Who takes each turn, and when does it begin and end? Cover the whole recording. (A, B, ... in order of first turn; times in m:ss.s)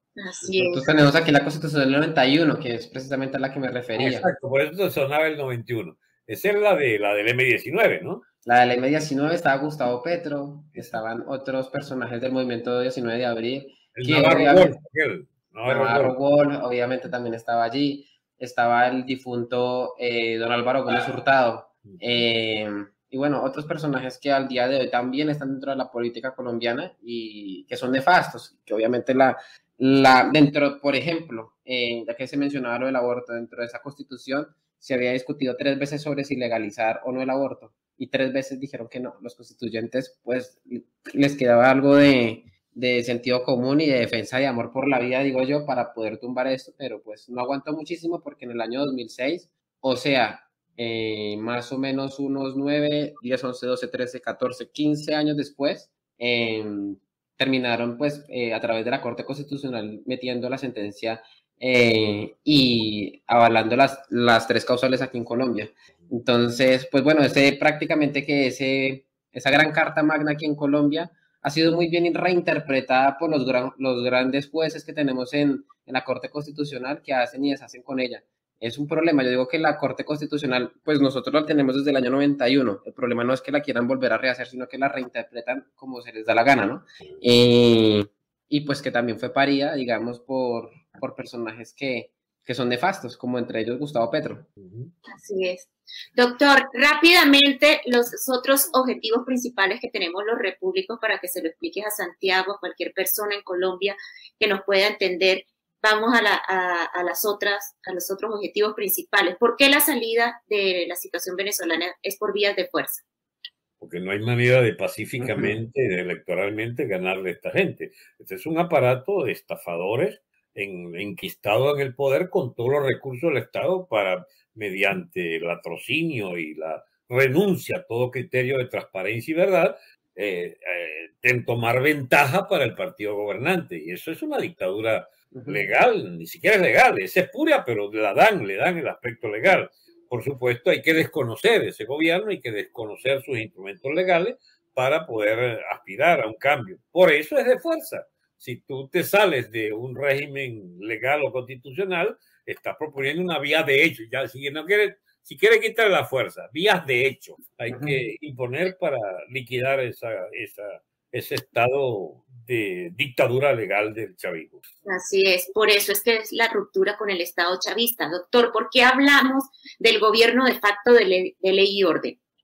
0:00.2-0:00.9 A
0:00.5-0:04.3 B
0:04.0-0:08.2 C
0:08.4-0:14.7 B
0:13.9-0:16.2 C
0:15.7-1:34.5 B
0:21.9-0:22.2 C
1:34.6-1:34.9 C
1:35.1-1:53.0 A
1:53.8-2:44.6 C
1:55.2-1:55.6 B
2:15.3-2:15.6 B
2:37.7-2:38.0 B
2:44.9-2:52.2 A